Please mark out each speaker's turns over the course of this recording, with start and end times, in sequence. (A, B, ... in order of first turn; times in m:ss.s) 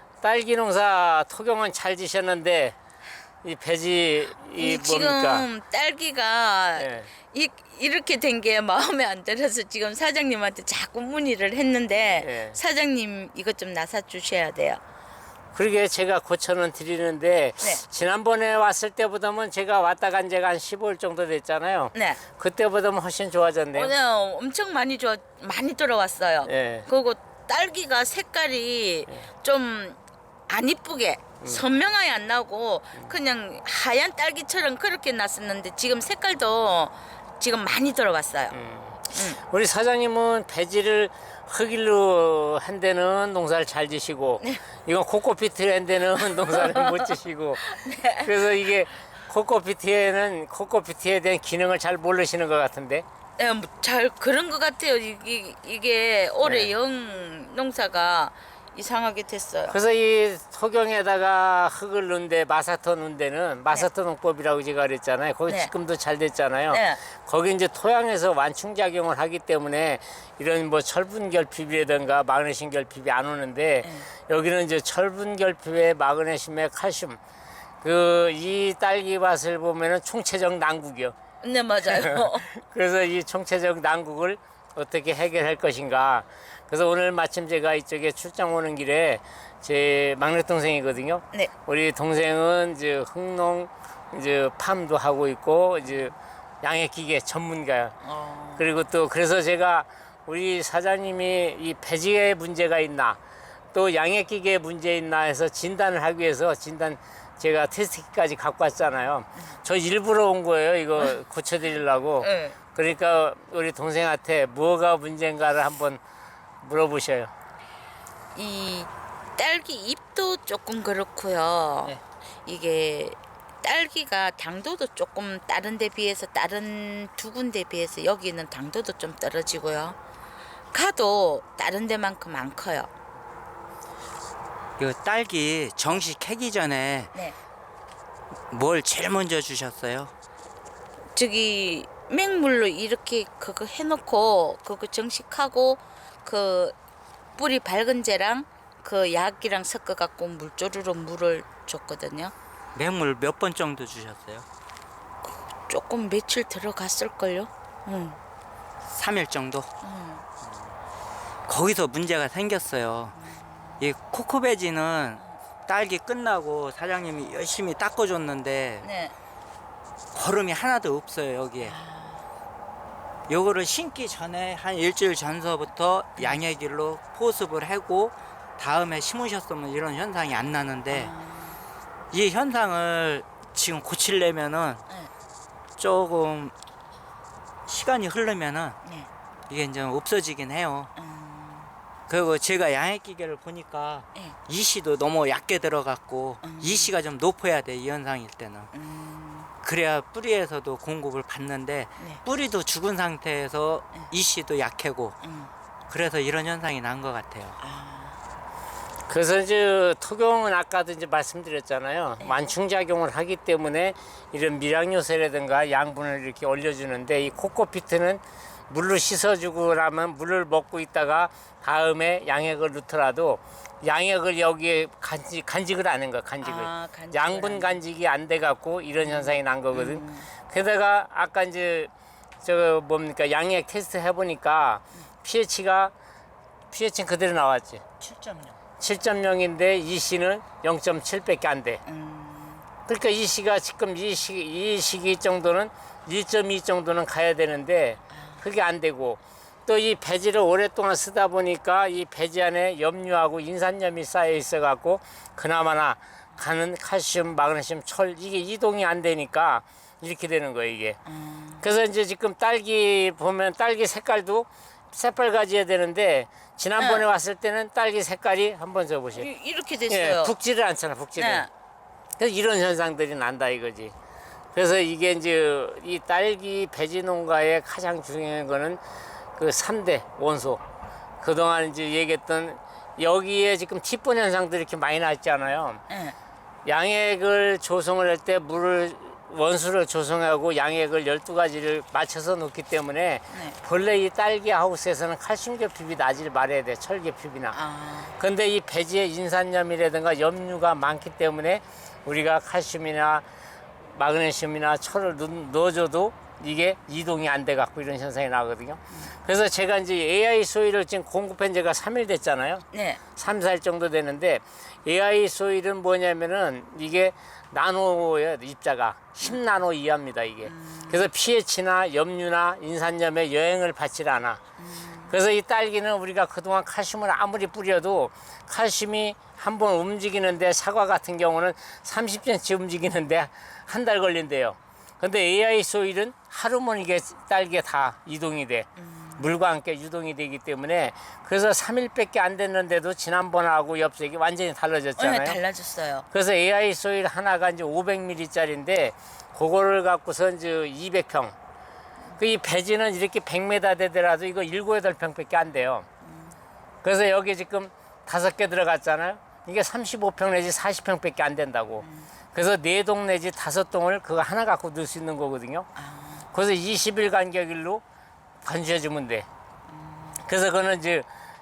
0:00.2-0:02.8 A
0:03.4-0:05.5 A
0:04.6-0:14.8 B
0:06.8-0:07.1 A
0:12.1-0:12.6 A
0:15.5-0:24.0 A
0:22.0-0:22.2 B
0:23.7-0:30.0 B
0:26.4-0:26.9 A
0:30.5-0:38.6 B
0:38.5-0:47.6 A
0:39.1-0:39.4 B
0:46.2-0:48.6 B
0:48.2-0:53.0 A
0:53.4-0:59.8 B
0:56.4-0:56.7 A
0:59.7-1:17.2 A
1:06.7-1:07.0 B
1:13.8-1:14.1 B
1:17.8-1:21.2 A
1:21.4-1:22.5 B
1:21.9-1:37.9 A
1:35.8-1:36.1 B
1:38.0-1:38.7 B
1:38.6-1:43.2 A
1:43.7-1:56.0 A
1:52.2-1:52.6 B
1:56.6-1:57.3 A
1:58.4-2:10.0 B
2:10.7-2:12.9 B
2:14.8-2:17.2 C
2:18.5-2:20.1 C
2:21.2-2:26.8 B
2:27.4-2:32.3 B
2:32.8-2:34.5 C
2:35.7-2:38.2 B
2:38.8-2:39.7 C
2:39.8-2:40.2 B
2:41.5-2:43.2 C
2:43.2-2:43.8 B
2:43.8-2:48.9 C
2:48.8-2:49.2 B
2:50.1-2:51.8 C
2:51.6-2:52.3 B
2:53.3-3:01.1 C
3:00.9-3:01.6 B
3:02.1-3:04.8 C
3:05.8-3:06.5 C
3:07.7-3:08.8 C
3:09.5-3:10.9 C
3:11.0-3:11.7 B
3:12.1-3:18.7 C
3:16.4-3:16.9 B
3:18.7-3:19.5 B
3:19.6-3:25.2 C
3:25.2-3:25.5 B
3:25.9-3:27.6 C
3:27.6-3:28.2 B
3:29.1-3:51.9 A
3:32.2-3:32.6 B
3:46.4-3:47.8 B
3:49.0-3:50.3 B
3:52.4-3:55.9 A
3:56.7-3:57.8 A
3:58.0-3:58.6 C
3:58.8-4:01.8 A
4:01.8-4:02.7 B
4:02.9-4:21.0 A
4:08.1-4:08.4 B
4:21.1-4:21.6 B
4:21.6-4:29.3 A
4:26.8-4:27.1 B
4:29.1-4:30.4 B
4:29.9-4:31.5 A
4:31.2-4:31.5 B
4:32.2-4:33.9 A
4:34.5-4:38.8 A
4:39.4-4:40.6 A
4:41.2-4:45.8 A
4:45.9-4:46.2 B
4:46.6-4:57.6 A
4:53.3-4:53.6 B
4:57.5-4:58.2 B
4:58.2-5:03.2 A
5:03.9-5:24.4 A
5:12.7-5:13.0 B
5:20.4-5:21.1 B
5:24.6-5:25.1 B
5:25.1-5:45.4 A
5:38.8-5:39.3 B
5:45.0-5:46.1 B
5:46.1-5:51.4 A
5:52.2-5:55.9 A
5:56.0-5:56.4 B
5:56.8-6:05.7 A
6:01.8-6:02.1 B
6:05.8-6:06.3 B
6:06.3-6:07.8 A
6:08.4-6:09.3 A
6:09.7-6:10.2 B
6:10.2-6:11.1 A